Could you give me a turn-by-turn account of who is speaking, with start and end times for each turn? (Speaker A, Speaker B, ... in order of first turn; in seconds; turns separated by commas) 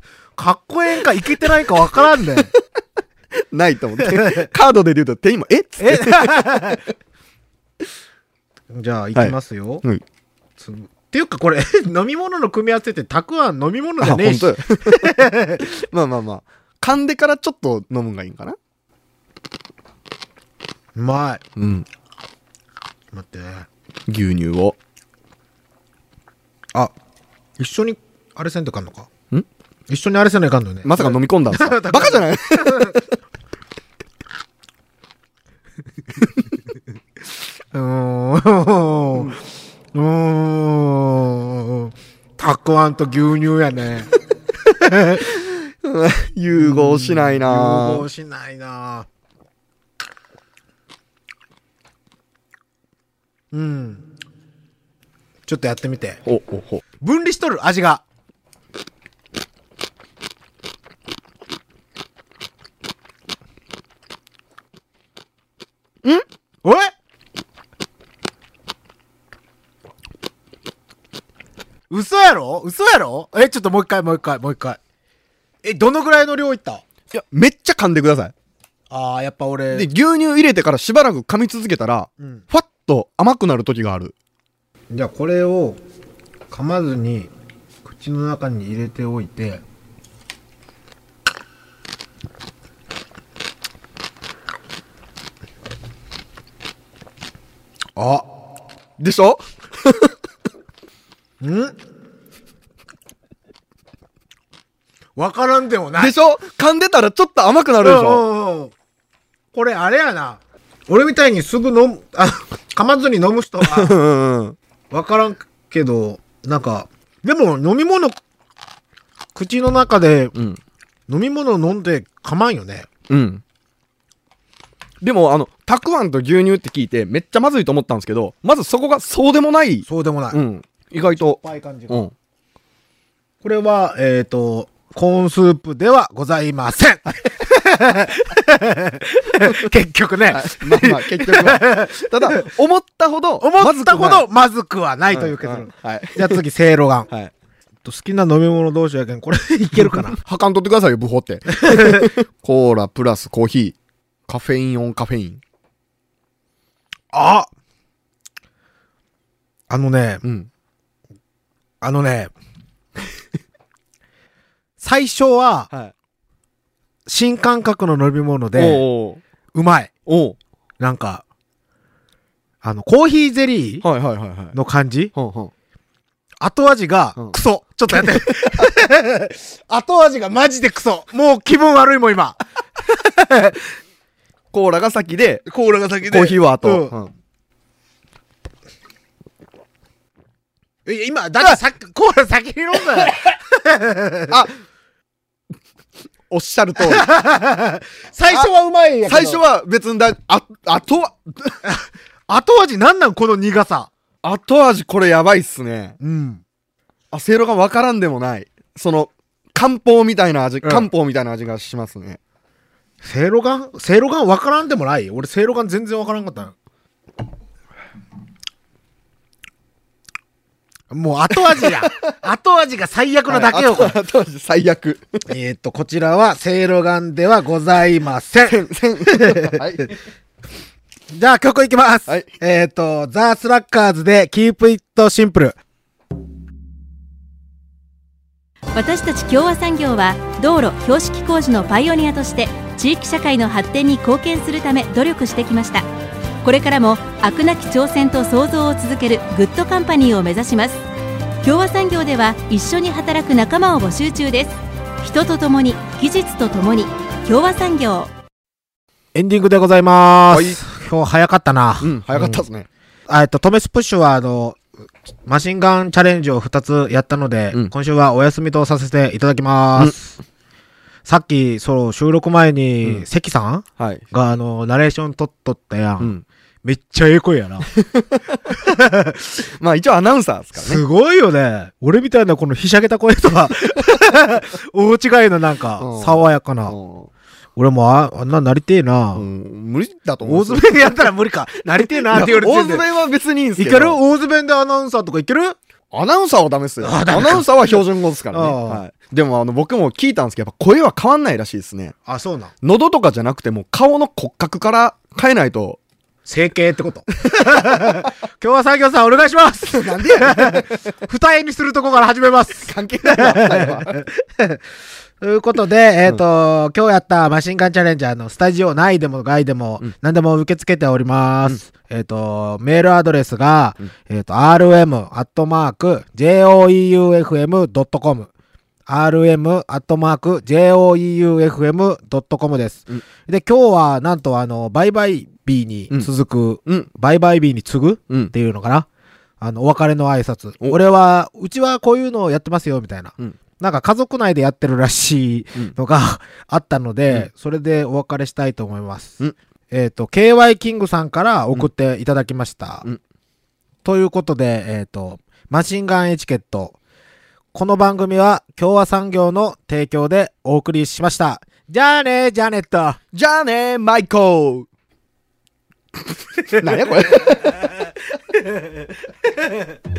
Speaker A: 0.4-2.5, Speaker B: 3.5-6.7, Speaker A: 4.0-4.5, Speaker A: 5.8-6.9, Speaker A: 8.7-9.8, Speaker B: 9.2-10.0, Speaker A: 10.6-15.7, Speaker B: 14.0-18.6, Speaker A: 20.9-21.4, Speaker B: 21.6-21.9, Speaker A: 23.1-23.7, Speaker B: 24.1-24.8, Speaker A: 27.6-29.1, Speaker A: 29.9-33.0, Speaker B: 30.8-33.0, Speaker A: 37.7-39.4, Speaker A: 39.9-44.1, Speaker A: 44.8-45.2, Speaker B: 45.2-48.1, Speaker A: 46.6-49.1, Speaker A: 53.5-54.0, Speaker A: 55.5-56.2, Speaker B: 56.2-56.8, Speaker A: 57.0-58.0, Speaker A: 66.6-66.9, Speaker A: 71.9-74.8, Speaker A: 75.6-76.8, Speaker B: 77.1-78.3, Speaker A: 78.9-79.9, Speaker B: 79.7-84.2, Speaker A: 82.2-82.5, Speaker A: 84.9-85.8, Speaker A: 86.5-87.3, Speaker A: 87.8-89.6, Speaker A: 98.0-98.2, Speaker B: 99.0-100.1, Speaker A: 101.4-101.8, Speaker A: 105.2-106.2, Speaker B: 106.0-108.2, Speaker A: 107.8-108.7, Speaker A: 109.5-114.0, Speaker B: 113.6-114.6, Speaker A: 114.9-118.2, Speaker A: 119.3-120.3, Speaker B: 120.3-120.6, Speaker A: 121.1-122.9, Speaker B: 123.1-123.4, Speaker B: 125.0-132.1, Speaker A: 129.9-130.4, Speaker A: 131.1-132.1, Speaker A: 133.4-142.4, Speaker B: 140.3-144.2, Speaker A: 143.4-147.1, Speaker B: 145.1-146.4, Speaker A: 147.8-150.2, Speaker B: 150.2-153.8, Speaker A: 151.5-152.0, Speaker B: 154.3-155.4, Speaker A: 157.1-157.5, Speaker A: 159.7-160.2, Speaker B: 160.2-160.5, Speaker A: 161.8-162.3, Speaker A: 164.8-165.7, Speaker A: 167.1-168.8, Speaker B: 168.6-169.2, Speaker A: 169.5-169.9, Speaker B: 170.1-170.4, Speaker A: 170.8-171.2, Speaker A: 172.6-173.8, Speaker B: 173.8-174.6, Speaker A: 174.5-175.1, Speaker B: 175.1-175.5, Speaker A: 176.4-183.8, Speaker B: 177.9-178.7, Speaker B: 184.5-185.5, Speaker A: 185.5-186.9, Speaker B: 186.1-187.1, Speaker A: 190.8-194.4, Speaker B: 196.3-197.1, Speaker A: 196.8-199.4, Speaker B: 199.1-201.6, Speaker A: 201.6-203.9, Speaker B: 204.2-206.0, Speaker A: 206.0-206.4, Speaker B: 207.1-212.2, Speaker A: 210.6-210.9, Speaker A: 213.0-216.6, Speaker A: 220.9-224.0, Speaker B: 223.3-225.2, Speaker A: 225.3-229.6, Speaker B: 228.5-229.9, Speaker A: 231.1-235.6, Speaker B: 232.1-232.3, Speaker C: 238.7-245.9, Speaker C: 246.4-250.8, Speaker C: 251.4-258.1, Speaker A: 259.1-262.4, Speaker B: 260.3-260.6, Speaker B: 261.8-262.7, Speaker A: 263.1-264.6, Speaker A: 265.3-270.2, Speaker A: 271.1-277.7, Speaker B: 273.8-274.1, Speaker B: 276.0-276.2, Speaker B: 277.7-278.2, Speaker A: 278.5-279.2, Speaker B: 279.4-280.8, Speaker A: 280.6-286.8, Speaker B: 285.8-287.1, Speaker A: 287.6-289.3, Speaker B: 289.1-290.9, Speaker A: 290.2-292.9, Speaker B: 292.1-294.0, Speaker A: 293.6-295.6, Speaker B: 295.9-302.0, Speaker A: 296.8-298.8, Speaker A: 302.1-302.5, Speaker B: 302.6-305.8, Speaker A: 306.2-314.6, Speaker B: 309.7-310.8, Speaker B: 312.7-314.0, Speaker A: 315.2-328.3, Speaker A: 328.9-338.9, Speaker A: 339.4-349.2, Speaker A: 349.7-352.9, Speaker A: 353.8-356.8, Speaker A: 357.5-363.0, Speaker B: 363.1-364.7, Speaker B: 366.5-367.6